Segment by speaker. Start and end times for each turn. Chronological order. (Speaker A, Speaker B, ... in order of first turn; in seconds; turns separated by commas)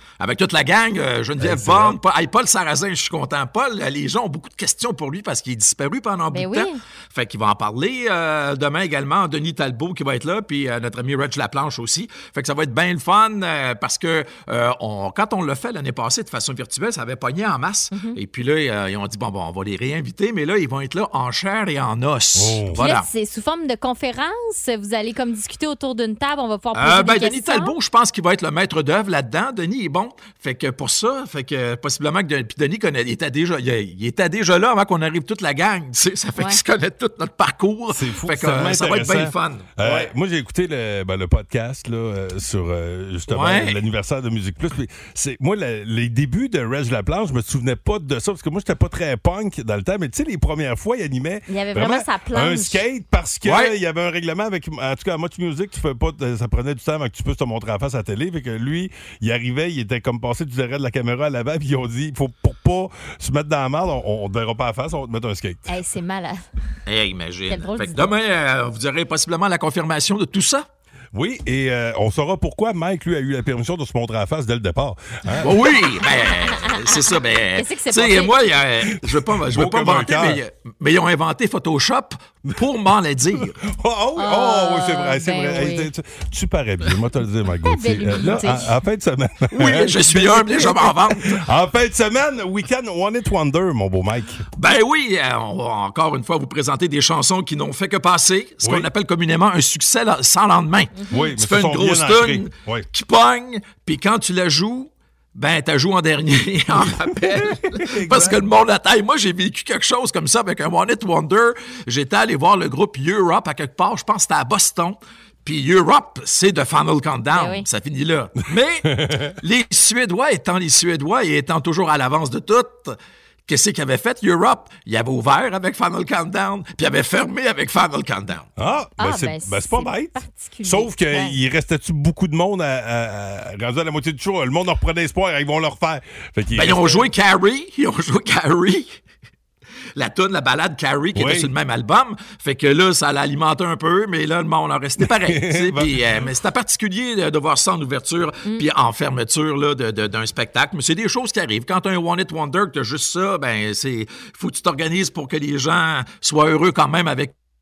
Speaker A: 0.2-23.1, Speaker B: 1.4-2.0, Speaker C: 6.3-6.8, Speaker B: 22.4-22.8, Speaker C: 22.8-27.7, Speaker A: 26.7-40.1, Speaker B: 37.9-65.7, Speaker A: 43.3-43.8, Speaker C: 51.5-52.8, Speaker A: 53.5-53.7, Speaker C: 65.7-66.4, Speaker A: 66.9-70.7, Speaker C: 67.5-68.1, Speaker B: 71.1-75.6, Speaker A: 75.4-83.6, Speaker C: 76.2-78.3, Speaker B: 79.5-80.4, Speaker B: 83.4-94.5, Speaker C: 84.2-85.9, Speaker C: 87.7-88.7, Speaker A: 89.5-91.4, Speaker A: 94.6-128.5, Speaker C: 101.0-101.2, Speaker B: 101.1-102.9, Speaker B: 106.8-108.4, Speaker C: 117.3-117.7, Speaker B: 118.9-119.3, Speaker B: 128.6-137.1, Speaker C: 129.0-131.4, Speaker A: 136.6-139.0, Speaker A: 140.0-157.3, Speaker B: 141.2-141.5, Speaker B: 145.0-146.0